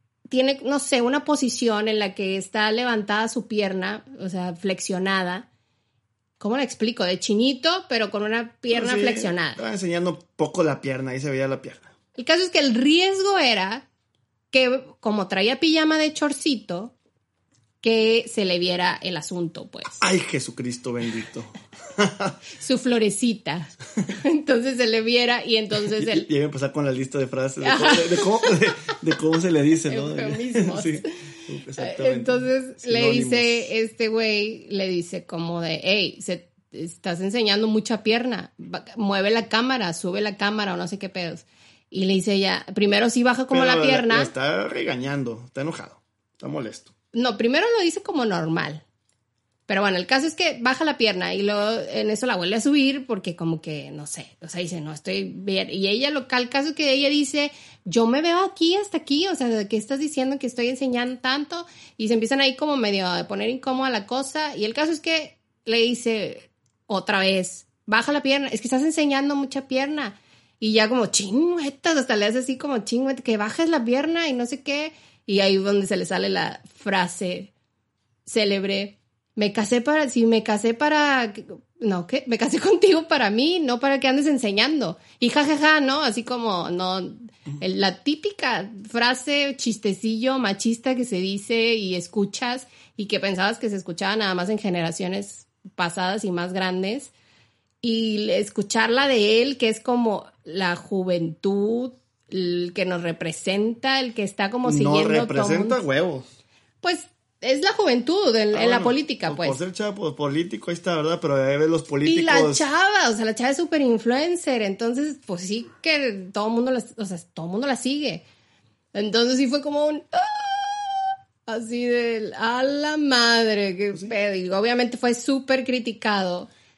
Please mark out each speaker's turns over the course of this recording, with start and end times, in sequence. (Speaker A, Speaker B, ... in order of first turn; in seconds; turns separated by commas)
Speaker A: 0.3-5.5, Speaker A: 6.4-9.6, Speaker B: 8.7-11.9, Speaker A: 12.2-13.8, Speaker A: 14.5-16.9, Speaker A: 17.8-20.0, Speaker B: 20.0-22.4, Speaker A: 22.6-26.3, Speaker B: 25.9-33.7, Speaker A: 27.6-28.5, Speaker A: 29.9-31.1, Speaker A: 31.8-44.3, Speaker B: 43.5-46.9, Speaker A: 47.1-48.8, Speaker A: 49.7-77.5, Speaker A: 78.2-97.1, Speaker A: 97.8-105.8, Speaker B: 104.6-106.2, Speaker A: 106.8-109.6, Speaker B: 108.5-112.6, Speaker A: 112.0-118.2, Speaker A: 118.9-126.5